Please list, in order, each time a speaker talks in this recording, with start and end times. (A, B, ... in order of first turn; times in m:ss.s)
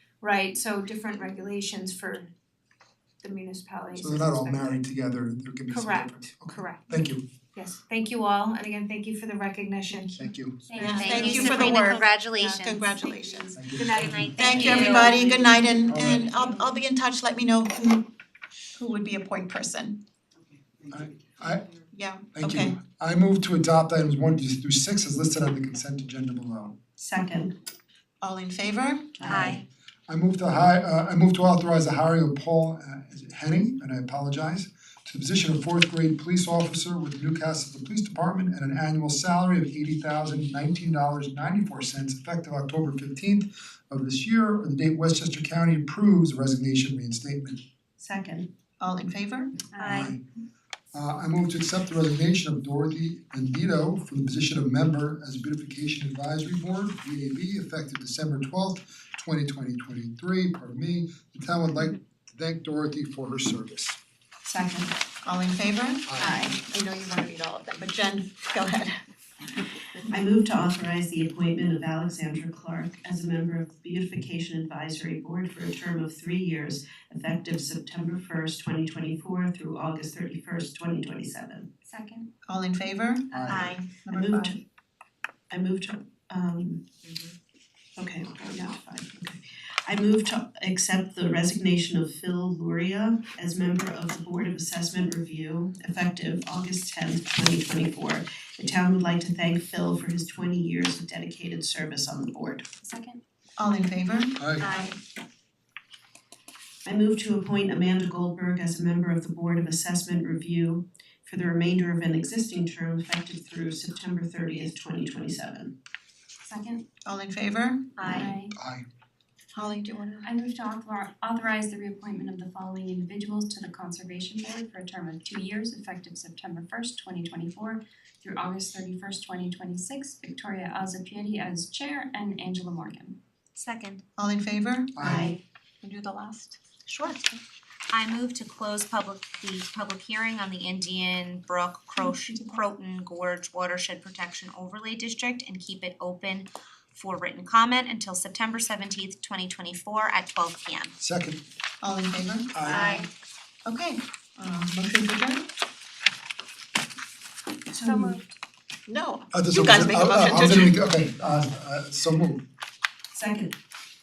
0:00.2-0:02.3 A
0:03.2-0:04.8 A
0:04.0-0:07.2 B
0:05.7-0:07.0 A
0:07.6-0:10.9 A
0:10.2-0:10.8 B
0:10.7-0:11.8 C
0:10.8-0:13.7 D
0:10.8-0:13.0 E
0:13.1-0:16.5 A
0:13.6-0:14.1 B
0:13.9-0:15.3 E
0:14.3-0:18.0 D
0:15.4-0:15.8 F
0:16.0-0:16.2 B
0:18.8-0:20.0 D
0:20.9-0:21.6 B
0:21.9-0:22.8 D
0:22.4-0:26.8 B
0:27.0-0:27.6 F
0:28.2-0:29.4 D
0:29.2-0:29.6 E
0:30.1-0:47.6 B
0:48.0-0:48.5 F
0:48.8-0:49.5 D
0:49.8-0:50.1 E
0:49.8-0:50.2 B
0:50.9-1:04.0 B
1:04.5-1:04.9 A
1:05.2-1:09.0 D
1:06.1-1:06.4 B
1:10.1-1:21.7 F
1:21.9-1:22.3 C
1:22.5-1:24.6 D
1:24.1-1:24.6 F
1:25.5-1:26.8 F
1:27.0-1:27.3 E
1:28.0-1:42.7 F
1:42.8-1:43.2 C
1:43.6-1:45.0 D
1:44.4-1:44.7 B
1:46.8-1:55.7 F
1:56.4-1:56.8 C
1:57.0-1:58.4 D
1:58.0-1:58.6 C
1:58.6-1:58.8 B
1:59.5-2:00.3 D
2:00.2-2:13.2 C
2:13.6-2:14.0 E
2:14.2-2:16.6 D
2:15.0-2:15.3 B
2:16.9-2:17.2 E
2:17.9-2:30.9 E
2:22.1-2:22.6 C
2:31.0-2:31.4 B
2:31.8-2:33.1 D
2:32.6-2:32.9 B
2:33.6-2:35.4 D
2:37.8-2:38.1 F
2:37.8-2:38.1 C
2:38.9-2:40.8 D
2:39.3-2:42.4 B
2:43.1-2:43.5 F